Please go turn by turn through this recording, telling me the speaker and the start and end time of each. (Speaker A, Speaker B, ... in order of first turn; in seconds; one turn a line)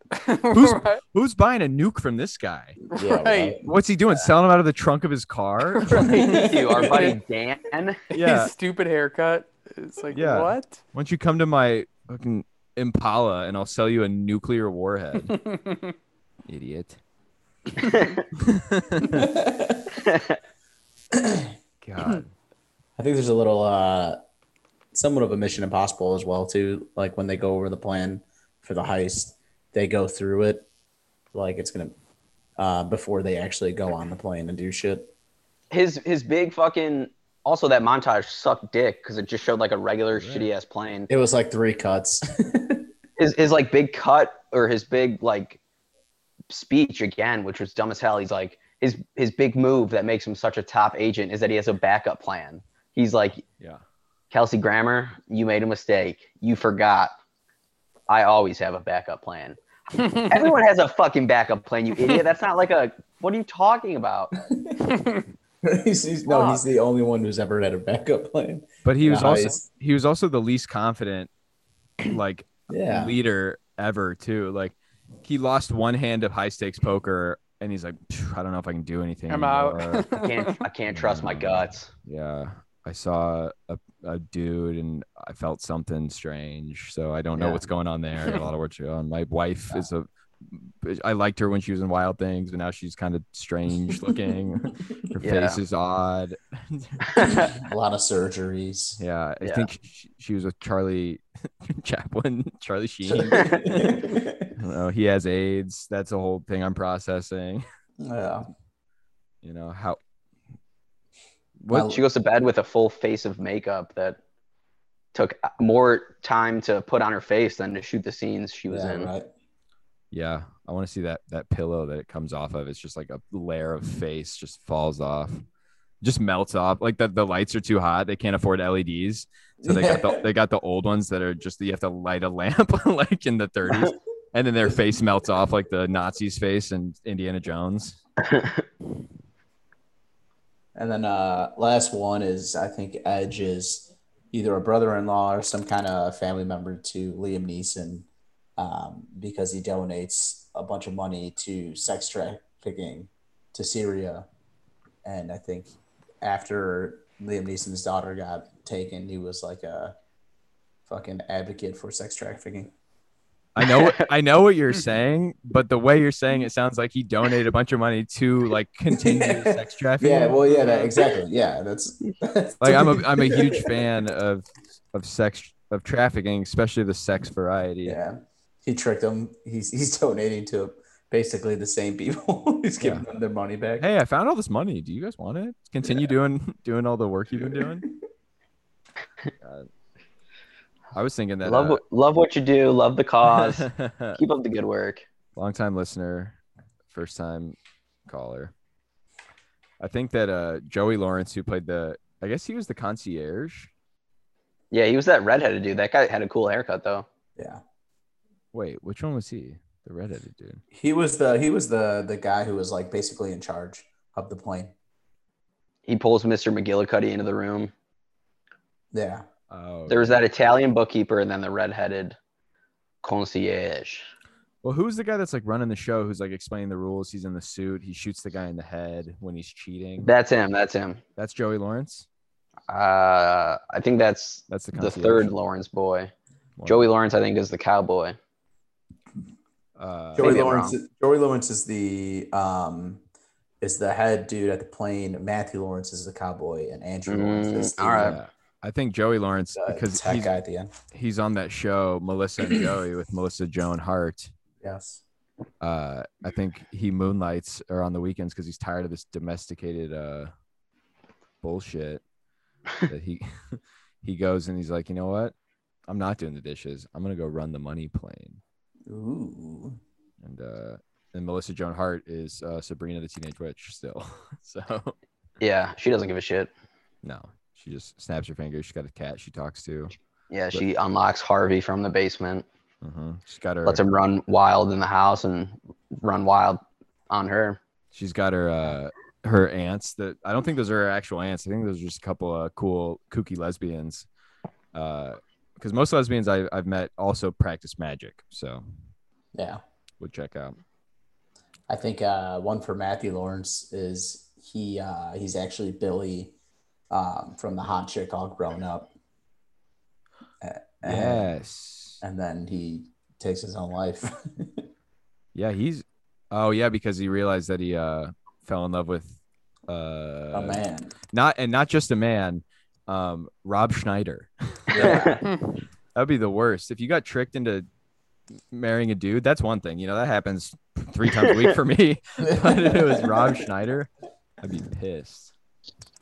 Speaker A: 0.1-1.0
Speaker B: 0.5-2.8
Speaker A: 2.9-3.6
Speaker C: 2.9-3.7
Speaker B: 3.6-6.9
Speaker A: 5.7-7.2
Speaker D: 5.9-8.0
Speaker A: 8.1-10.8
Speaker B: 8.1-8.5
Speaker B: 10.1-15.4
Speaker A: 15.2-15.9
Speaker B: 16.5-17.0
Speaker D: 17.8-18.2
Speaker B: 18.3-19.3
Speaker C: 19.2-19.9
Speaker D: 20.0-20.3
Speaker C: 21.1-21.5
Speaker B: 21.8-22.3
Speaker C: 23.0-24.2
Speaker C: 24.9-30.7
Speaker C: 31.3-31.9
Speaker C: 32.6-35.1
Speaker D: 35.7-41.1
Speaker B: 40.1-40.5
Speaker C: 41.1-42.9
Speaker D: 43.2-45.6
Speaker D: 46.5-53.4
Speaker D: 54.3-57.1
Speaker D: 58.1-59.6
Speaker A: 59.9-60.5
Speaker D: 60.1-64.3
Speaker C: 64.4-64.8
Speaker A: 64.9-65.2
Speaker C: 65.6-69.6
Speaker B: 68.8-71.3
Speaker B: 72.0-80.0
Speaker C: 72.7-73.2
Speaker A: 79.3-80.7
Speaker D: 80.1-81.9
Speaker B: 80.9-97.5
Speaker D: 87.3-87.6
Speaker D: 95.2-95.6
Speaker C: 97.3-99.0
Speaker B: 99.0-107.6
Speaker D: 99.4-99.7
Speaker C: 103.0-104.5
Speaker C: 108.0-108.5
Speaker B: 109.4-110.0
Speaker B: 111.6-111.9
Speaker C: 111.7-112.0
Speaker D: 111.8-114.2
Speaker D: 115.1-119.1
Speaker C: 118.7-119.3
Speaker B: 120.1-125.4
Speaker B: 126.0-138.0
Speaker C: 129.6-130.3
Speaker D: 138.2-138.6
Speaker C: 140.7-148.1
Speaker C: 148.6-154.2
Speaker C: 155.0-159.9
Speaker C: 160.9-162.7
Speaker B: 163.6-170.4
Speaker D: 163.6-164.1
Speaker C: 168.9-173.8
Speaker A: 170.4-170.9
Speaker B: 172.6-178.0
Speaker C: 177.8-183.9
Speaker B: 182.8-183.1
Speaker B: 183.8-187.8
Speaker C: 185.8-186.1
Speaker C: 187.3-188.0
Speaker B: 189.4-189.7
Speaker B: 190.9-191.8
Speaker D: 191.4-195.0
Speaker B: 193.2-194.2
Speaker B: 195.3-196.4
Speaker B: 196.9-197.6
Speaker B: 198.1-198.5
Speaker B: 199.8-203.7
Speaker D: 204.7-207.1
Speaker C: 207.4-207.6
Speaker B: 208.5-210.6
Speaker C: 210.7-214.7
Speaker D: 215.8-217.7
Speaker C: 218.9-219.2
Speaker B: 219.5-220.2
Speaker D: 219.9-222.2
Speaker D: 223.0-224.1
Speaker B: 224.6-230.1
Speaker D: 230.0-231.0
Speaker B: 231.2-232.1
Speaker D: 232.7-236.1
Speaker B: 234.5-235.3
Speaker B: 236.6-236.9
Speaker D: 236.7-238.2
Speaker B: 239.8-240.6
Speaker C: 240.1-243.0
Speaker D: 240.2-240.7
Speaker C: 243.6-248.2
Speaker D: 247.1-248.2
Speaker B: 247.9-250.3
Speaker C: 249.5-250.7
Speaker B: 250.9-254.3
Speaker C: 254.6-255.0
Speaker B: 255.6-260.3
Speaker B: 261.4-262.0
Speaker B: 262.9-265.3
Speaker B: 265.9-268.4
Speaker C: 268.9-269.8
Speaker B: 270.2-274.9
Speaker D: 275.4-276.5
Speaker B: 277.0-279.9
Speaker D: 280.3-282.4
Speaker B: 282.8-283.8
Speaker D: 283.6-287.6
Speaker B: 287.9-294.1
Speaker B: 294.7-298.6
Speaker C: 299.3-299.6
Speaker B: 300.0-300.6
Speaker C: 301.7-306.3
Speaker C: 306.9-308.9
Speaker C: 310.4-311.3
Speaker B: 310.8-312.0
Speaker C: 312.0-314.6
Speaker B: 315.3-325.0
Speaker C: 320.3-320.9
Speaker C: 324.7-325.2
Speaker D: 324.8-325.2
Speaker B: 325.9-327.6
Speaker B: 328.5-335.3
Speaker C: 332.2-333.3